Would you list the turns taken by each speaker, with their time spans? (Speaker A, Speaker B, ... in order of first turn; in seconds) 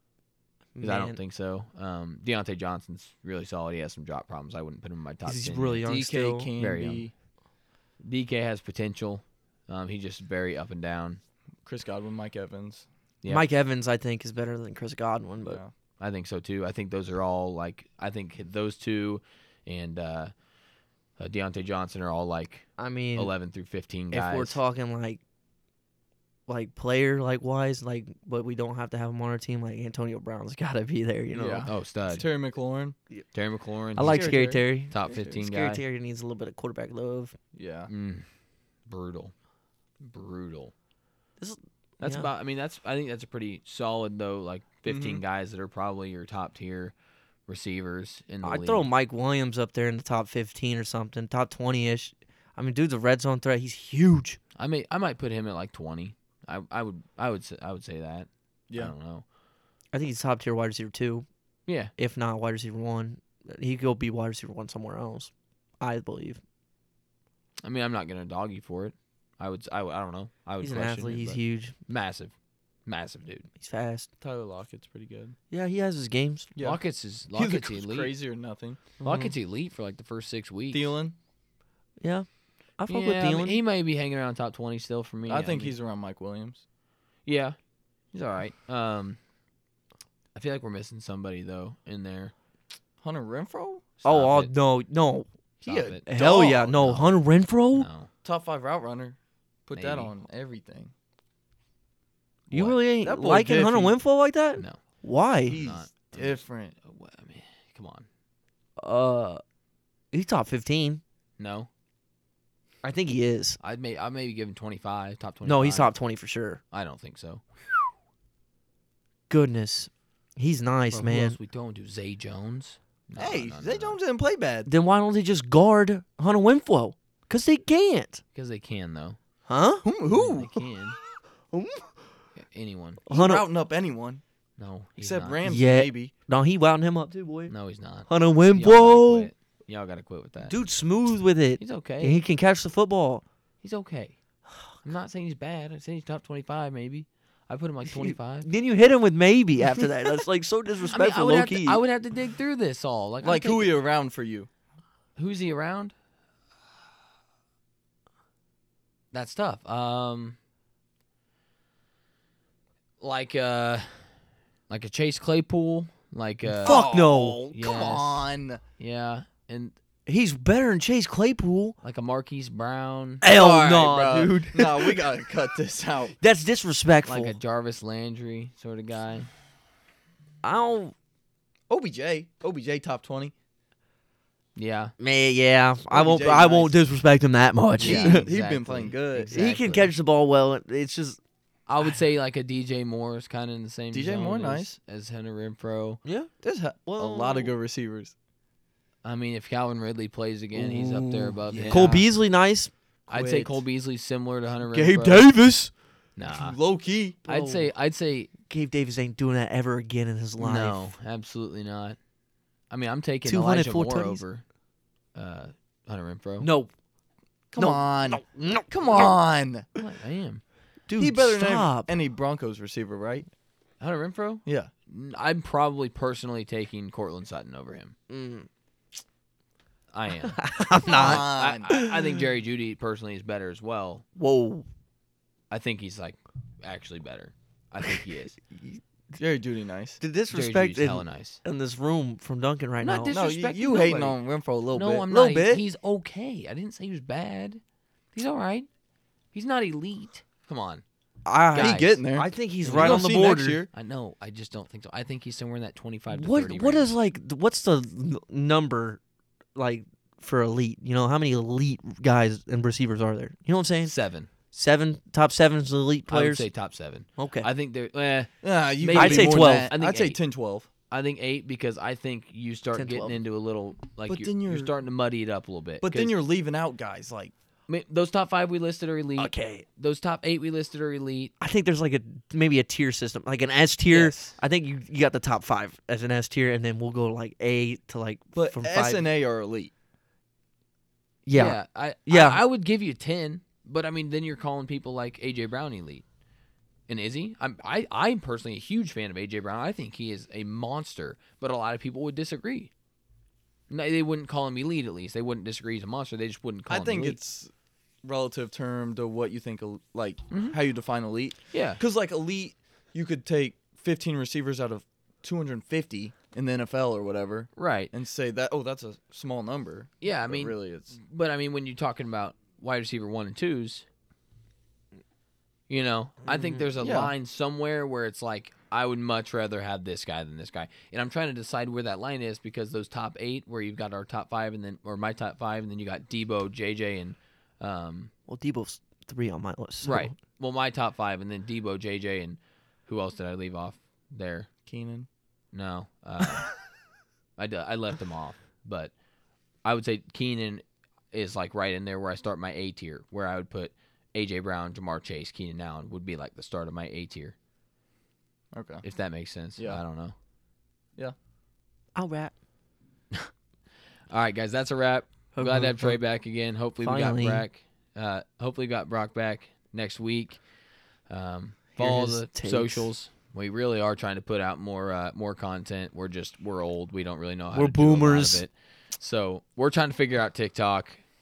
Speaker A: 0.8-1.2, 5.2-6.5, 13.3-15.6, 22.8-23.3, 24.1-25.2, 26.5-31.7, 34.0-37.3, 41.4-42.3, 48.4-54.4, 59.9-61.3, 62.0-66.4, 70.6-71.8, 73.5-74.1, 75.5-76.5, 82.0-82.3, 82.8-83.6, 94.0-95.3, 96.1-97.9, 102.5-105.6, 108.8-109.4, 110.1-111.0, 112.8-113.6, 115.5-116.6, 119.3-121.4, 124.7-128.2, 129.5-129.8, 131.5-131.9, 133.1-133.4, 135.4-137.5, 138.0-139.3, 140.4-143.2, 147.9-151.8, 166.6-167.5, 170.1-171.8, 173.2-175.0, 176.2-177.4, 180.4-180.9, 185.0-188.2, 189.3-191.2, 196.1-196.3, 196.9-197.5, 200.5-203.4, 204.7-205.7, 207.2-207.7, 208.4-210.9, 213.3-214.2, 216.4-216.7, 217.6-219.1, 220.9-221.9, 228.1-228.5, 230.3-232.1, 234.2-234.7, 240.0-243.2, 251.2-253.6, 256.1-259.0, 259.6-263.9, 264.5-266.5, 267.2-267.5, 268.9-269.7, 272.7-273.1, 279.2-279.6, 281.4-289.1, 291.3-292.4, 326.3-326.7, 338.3-340.1, 361.9-362.3, 365.3-366.0, 366.8-367.4, 371.8-372.9, 377.5-378.4
Speaker B: 0.8-5.9, 6.6-7.1, 8.0-11.2, 16.0-20.3, 21.2-24.6, 31.6-32.2, 33.3-35.8, 37.9-38.3, 38.8-39.3, 40.0-40.7, 42.0-46.9, 47.5-48.9, 54.5-59.2, 61.7-61.9, 67.6-72.3, 72.8-73.5, 76.6-78.1, 79.0-80.9, 82.9-85.8, 87.3-87.6, 88.1-89.2, 90.3-92.3, 94.0-94.5, 95.7-96.0, 96.8-97.2, 97.7-98.1, 99.7-100.1, 102.5-102.8, 105.5-108.1, 111.4-111.7, 113.6-115.9, 116.7-117.9, 120.9-124.0, 128.3-129.2, 130.1-131.0, 132.4-133.0, 134.6-135.5, 137.5-140.5, 141.6-142.2, 143.6-144.2, 144.7-148.5, 150.9-153.7, 155.2-155.9, 159.1-160.4, 163.0-164.1, 164.7-166.9, 167.5-169.7, 171.8-173.3, 177.1-179.3, 184.6-184.9, 187.8-189.9, 191.7-196.0, 199.0-202.0, 203.1-205.3, 206.2-206.6, 207.3-208.3, 210.4-212.0, 212.7-214.4, 215.1-216.5, 219.8-220.4, 223.8-227.9, 229.9-234.1, 235.5-238.4, 240.3-241.4, 242.8-244.2, 244.7-247.6, 248.1-248.7, 249.3-250.8, 251.5-251.9, 252.6-253.1, 253.7-256.9, 263.8-264.3, 266.1-270.2, 270.9-276.1, 277.7-281.3, 283.9-284.3, 291.3-296.1, 296.9-302.7, 303.7-307.2, 310.3-310.6, 311.5-311.8, 317.6-317.9, 320.0-323.9, 325.7-338.1, 339.8-344.5, 345.5-346.6, 347.4-348.9, 349.6-357.4, 358.8-360.1, 364.1-370.4, 371.1-381.0
Speaker C: 5.9-7.1, 11.6-12.9, 15.4-15.7, 31.3-33.0, 34.0-34.6, 37.5-37.9, 44.9-45.2, 74.2-75.4, 76.5-76.8, 77.3-79.3, 80.7-81.1, 85.3-86.6, 93.0-93.9, 95.6-96.7, 98.2-100.9, 103.0-104.0, 105.5-106.8, 123.2-124.7, 129.8-130.6, 133.1-134.2, 135.0-136.1, 153.2-154.5, 166.6-168.6, 173.3-176.2, 181.7-183.3, 185.9-186.8, 187.8-189.4, 193.9-194.8, 196.4-198.1, 201.4-202.1, 203.1-203.5, 206.3-207.2, 217.5-219.7, 221.0-223.3, 224.4-224.7, 230.9-231.7, 239.2-240.0, 243.1-245.6, 251.5-253.7, 268.4-270.7, 274.1-274.7, 275.8-277.3, 288.3-289.7, 306.7-307.5, 308.0-321.0, 326.8-327.1, 344.6-345.1, 358.5-358.9, 359.6-359.8